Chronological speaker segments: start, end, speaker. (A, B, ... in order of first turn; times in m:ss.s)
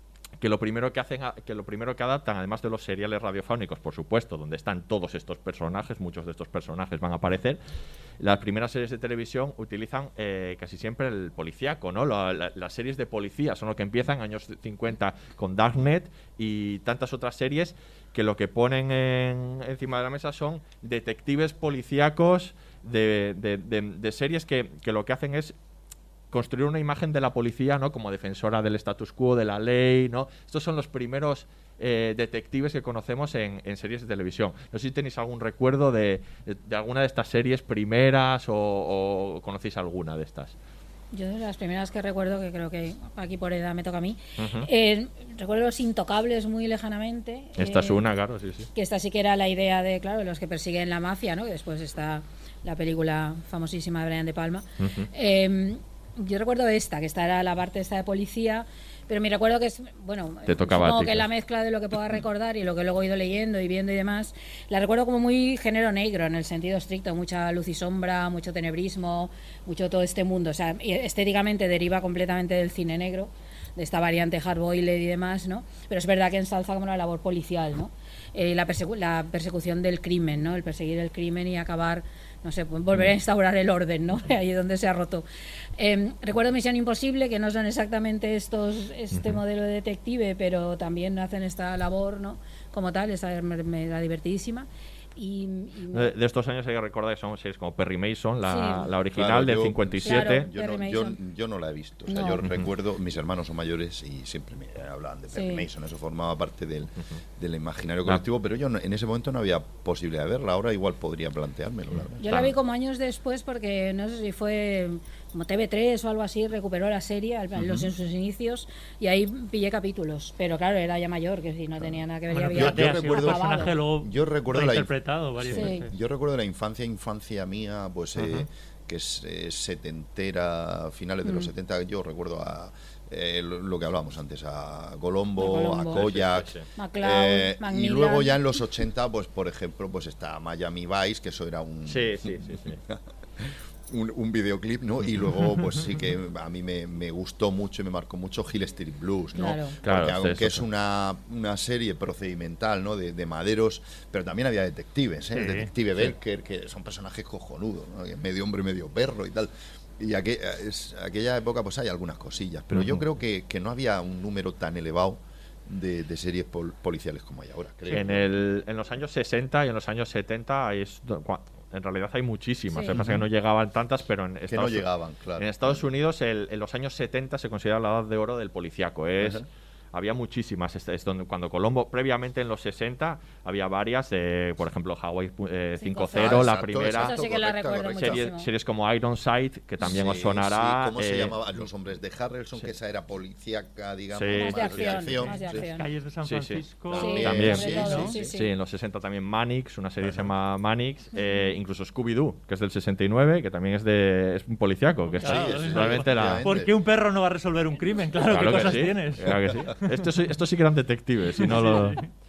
0:00.4-0:07.6 A
0:08.2-0:25.5 A
0:26.3-0:40.6 A
0:41.1-0:48.0 B
0:44.4-0:44.7 A
0:47.6-0:48.7 A
0:48.7-1:25.2 B
0:54.8-0:55.1 A
1:00.5-1:01.3 A
1:25.8-1:36.1 B
1:29.1-1:29.4 A
1:35.9-1:40.5 A
1:38.4-1:38.9 B
1:39.1-1:52.2 C
1:40.0-1:41.2 B
1:42.1-1:42.4 B
1:42.4-1:42.7 A
1:45.3-1:45.6 B
1:52.2-2:03.8 B
1:52.2-1:52.5 A
1:57.6-1:57.9 C
2:02.3-2:05.9 D
2:02.5-2:48.3 C
2:05.5-2:05.8 B
2:08.2-2:08.4 A
2:15.4-2:16.0 B
2:15.9-2:16.6 A
2:16.8-2:18.4 B
2:21.9-2:22.8 A
2:29.4-2:29.8 B
2:29.8-2:30.6 A
2:35.3-2:35.7 D
2:42.7-2:43.0 A
2:47.9-2:54.8 A
2:52.9-2:53.2 C
2:54.5-2:55.8 C
2:55.4-3:07.1 A
2:59.2-2:59.4 C
3:05.8-3:08.5 B
3:06.1-3:08.2 C
3:08.0-3:11.4 A
3:09.8-3:15.7 C
3:14.1-3:15.0 A
3:14.3-3:15.9 B
3:15.3-3:18.1 D
3:16.2-3:16.6 A
3:16.9-3:18.3 C
3:16.9-3:18.5 B
3:17.2-3:26.4 A
3:20.0-3:20.3 C
3:21.1-3:21.5 B
3:25.2-3:29.9 D
3:25.2-3:26.7 C
3:28.3-3:32.0 A
3:31.4-3:32.1 D